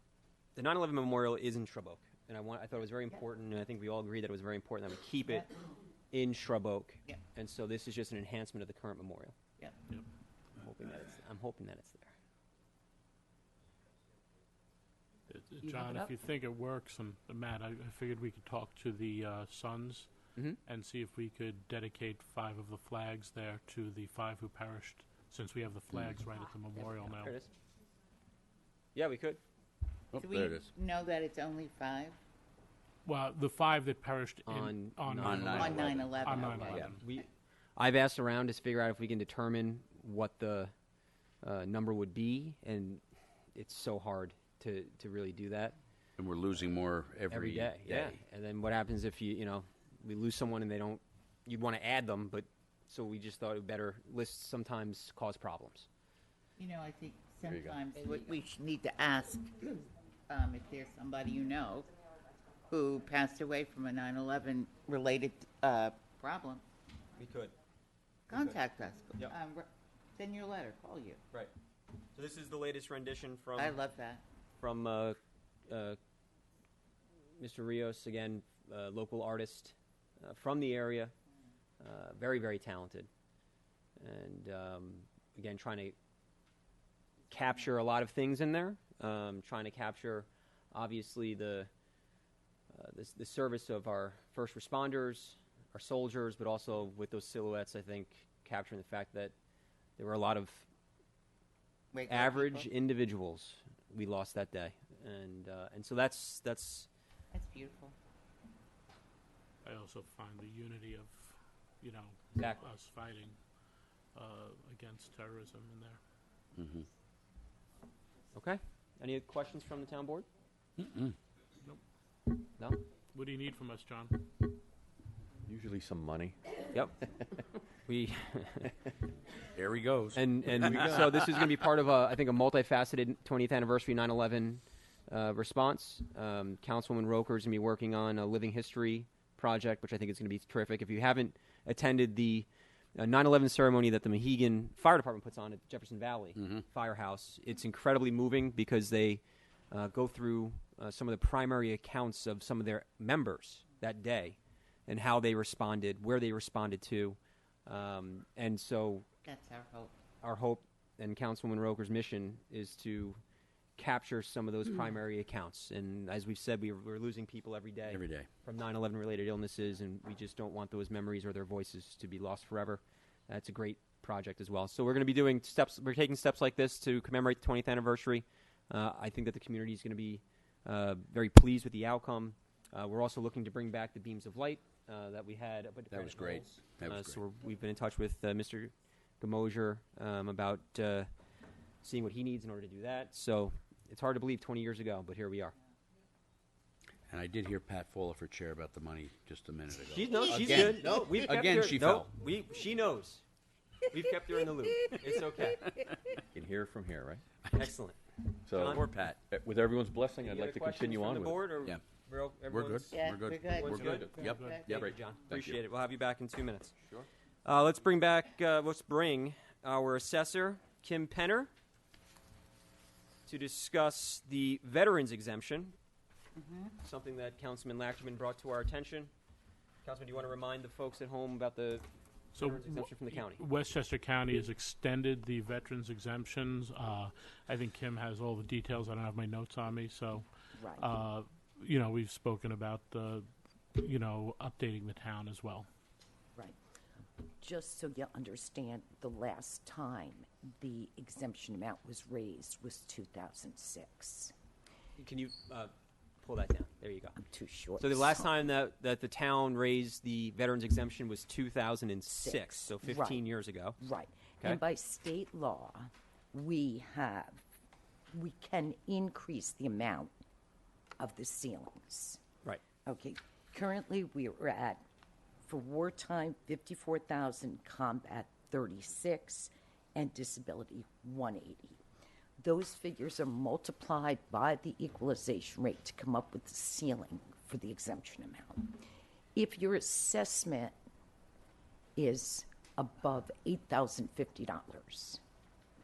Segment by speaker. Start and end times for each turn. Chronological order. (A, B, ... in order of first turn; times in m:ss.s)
0:00.5-0:05.5 A
0:06.1-0:09.3 A
0:10.6-0:12.1 A
0:15.3-0:20.1 B
0:15.6-0:16.1 C
0:20.6-0:27.3 B
0:25.9-0:26.2 D
0:26.7-0:27.5 A
0:28.9-0:29.4 A
0:30.1-0:30.7 D
0:30.2-0:32.2 E
0:33.0-0:37.0 B
0:34.4-0:40.7 A
0:35.2-0:36.9 D
0:35.5-0:36.9 E
0:41.4-0:43.0 A
0:43.5-0:45.8 A
0:46.2-0:48.1 D
0:47.3-0:55.9 A
0:56.6-0:59.7 E
0:57.5-0:57.8 D
1:00.3-1:01.9 E
1:02.7-1:06.6 E
1:07.2-1:07.5 A
1:08.3-1:11.2 E
1:08.3-1:08.6 A
1:12.1-1:13.8 A
1:13.6-1:14.2 E
1:14.6-1:16.0 A
1:17.4-1:21.1 A
1:21.8-1:23.1 A
1:24.0-1:26.0 A
1:27.3-1:31.7 A
1:32.7-1:39.3 A
1:40.0-1:40.7 A
1:41.9-1:42.7 E
1:42.1-1:46.9 A
1:47.3-1:47.9 E
1:49.6-1:53.4 B
1:52.3-1:52.6 A
1:54.1-1:56.0 B
1:56.6-1:56.9 D
1:58.3-2:00.3 A
2:00.8-2:01.1 D
2:02.6-2:02.8 A
2:03.1-2:04.2 B
2:05.4-2:06.4 F
2:06.7-2:07.1 A
2:07.8-2:08.9 A
2:09.5-2:10.9 D
2:10.1-2:39.0 A
2:10.6-2:11.0 F
2:39.2-2:39.9 E
2:40.2-2:43.2 A
2:43.8-3:11.1 A
2:47.9-2:48.3 D
3:05.9-3:07.2 D
3:11.8-3:15.5 A
3:17.1-3:22.1 D
3:19.9-3:23.2 A
3:20.7-3:21.1 F
3:23.9-3:25.8 A
3:26.3-3:27.2 F
3:27.5-3:29.1 A
3:28.4-3:31.6 F
3:30.2-3:32.9 A
3:32.4-3:35.6 D
3:32.9-3:34.8 E
3:33.5-3:36.7 A
3:33.7-3:34.2 F
3:34.3-3:34.6 B
3:37.4-3:41.5 A
3:43.2-3:45.7 A
3:46.4-3:46.7 E
3:46.8-3:49.1 A
3:49.8-3:53.4 A
3:52.4-4:05.7 B
4:00.6-4:00.9 C
4:07.2-4:14.3 C
4:15.0-4:17.2 A
4:17.2-4:18.3 C
4:17.8-4:23.8 A
4:22.1-4:23.2 C
4:23.8-4:27.4 C
4:28.1-4:30.1 C
4:31.0-4:32.2 C
4:32.8-4:34.8 C
4:35.4-4:41.8 C
4:42.4-4:48.8 C
4:49.3-4:50.7 C
4:52.0-4:55.2 C